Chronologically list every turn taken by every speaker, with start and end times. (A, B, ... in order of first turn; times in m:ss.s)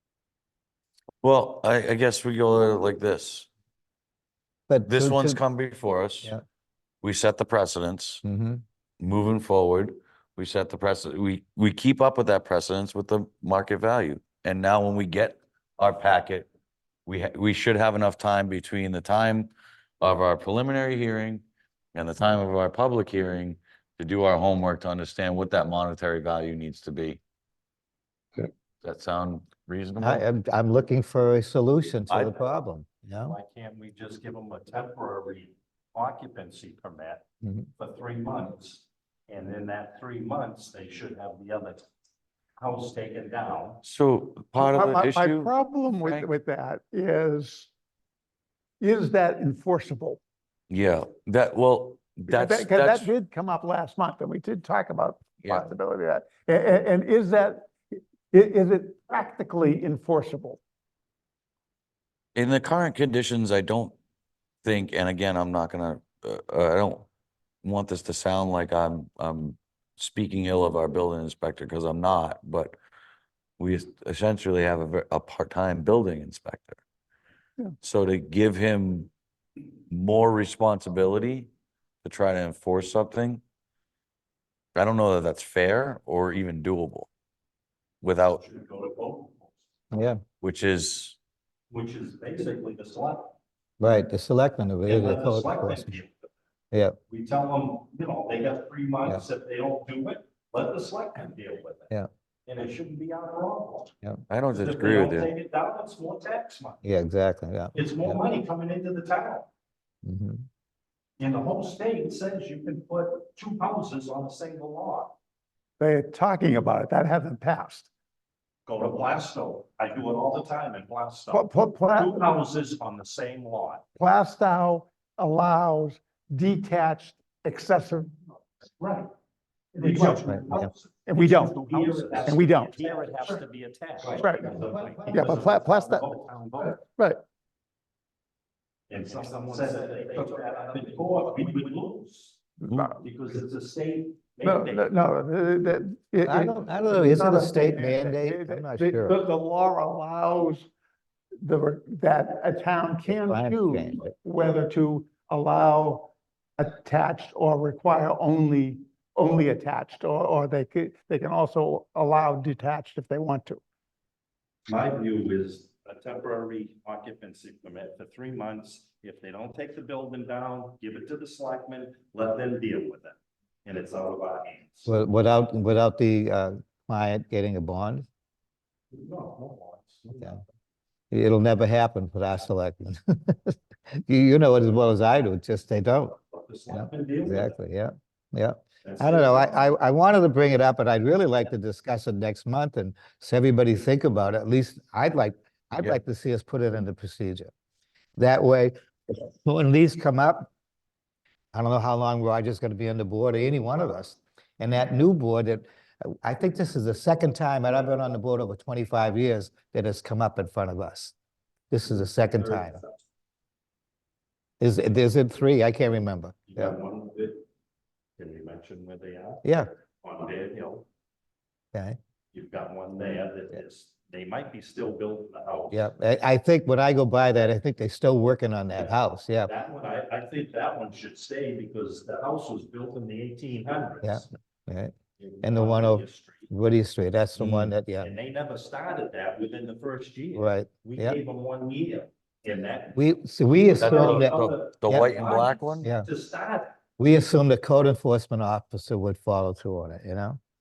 0:01.2-0:03.5 A
0:04.7-0:05.4 B
0:04.9-0:06.3 A
0:07.0-0:08.2 A
0:08.2-0:08.6 B
0:09.0-0:16.5 A
0:17.1-0:21.4 A
0:22.0-0:27.2 A
0:28.4-0:30.2 A
0:30.0-0:33.4 B
0:32.3-0:32.6 C
0:33.3-0:37.2 C
0:37.4-0:37.7 B
0:37.8-0:41.9 C
0:42.6-0:43.8 C
0:43.8-0:46.3 A
0:44.6-0:47.7 D
0:48.8-0:50.2 D
0:50.7-0:53.1 A
0:52.3-1:00.6 D
0:55.4-0:55.7 A
1:02.4-1:03.9 A
1:04.6-1:07.1 A
1:07.6-1:12.8 A
1:13.6-1:16.8 A
1:17.8-1:19.1 A
1:19.9-1:21.5 A
1:22.0-1:23.4 A
1:24.8-1:27.1 A
1:28.0-1:28.4 A
1:28.3-1:29.6 C
1:29.9-1:30.2 B
1:30.4-1:31.2 A
1:31.7-1:33.4 C
1:33.8-1:36.0 B
1:34.8-1:36.3 C
1:36.7-1:37.0 B
1:37.1-1:41.9 C
1:42.5-1:43.9 C
1:44.3-1:45.3 A
1:44.5-1:46.8 C
1:46.8-1:48.2 B
1:47.7-1:49.5 C
1:50.0-1:50.5 B
1:51.2-1:55.2 C
1:55.8-1:57.9 D
1:58.7-2:03.8 C
2:01.3-2:02.4 D
2:04.0-2:08.2 D
2:08.8-2:09.1 C
2:09.8-2:13.4 D
2:09.8-2:16.8 C
2:10.3-2:10.7 B
2:14.2-2:16.2 D
2:14.2-2:15.5 B
2:16.8-2:17.2 D
2:18.9-2:22.4 C
2:22.6-2:23.0 D
2:22.7-2:23.0 A
2:23.0-2:24.9 C
2:24.4-2:30.7 D
2:26.2-2:29.2 B
2:31.4-2:43.6 D
2:33.1-2:34.1 B
2:44.7-2:54.9 C
2:54.9-2:58.1 B
2:58.9-3:00.4 C
3:01.1-3:06.2 B
3:06.3-3:07.6 C
3:06.7-3:17.5 B
3:08.8-3:09.7 C
3:18.2-3:20.5 B
3:21.5-3:31.2 B
3:31.7-3:32.8 B
3:31.9-3:33.0 C
3:34.6-3:36.8 B
3:36.5-3:37.4 C
3:38.2-3:39.5 C
3:39.4-3:39.7 B
3:40.0-3:40.9 C
3:41.7-3:42.0 B
3:42.3-3:45.9 C
3:45.7-3:49.5 B
3:49.4-3:54.3 C
3:54.0-3:58.1 B
3:55.2-3:56.5 C
3:57.4-3:57.7 A
3:57.6-4:03.0 C
4:00.4-4:01.2 B
4:03.0-4:05.1 B
4:03.8-4:06.8 C
4:03.8-4:05.9 A
4:05.8-4:06.1 B
4:07.0-4:10.4 B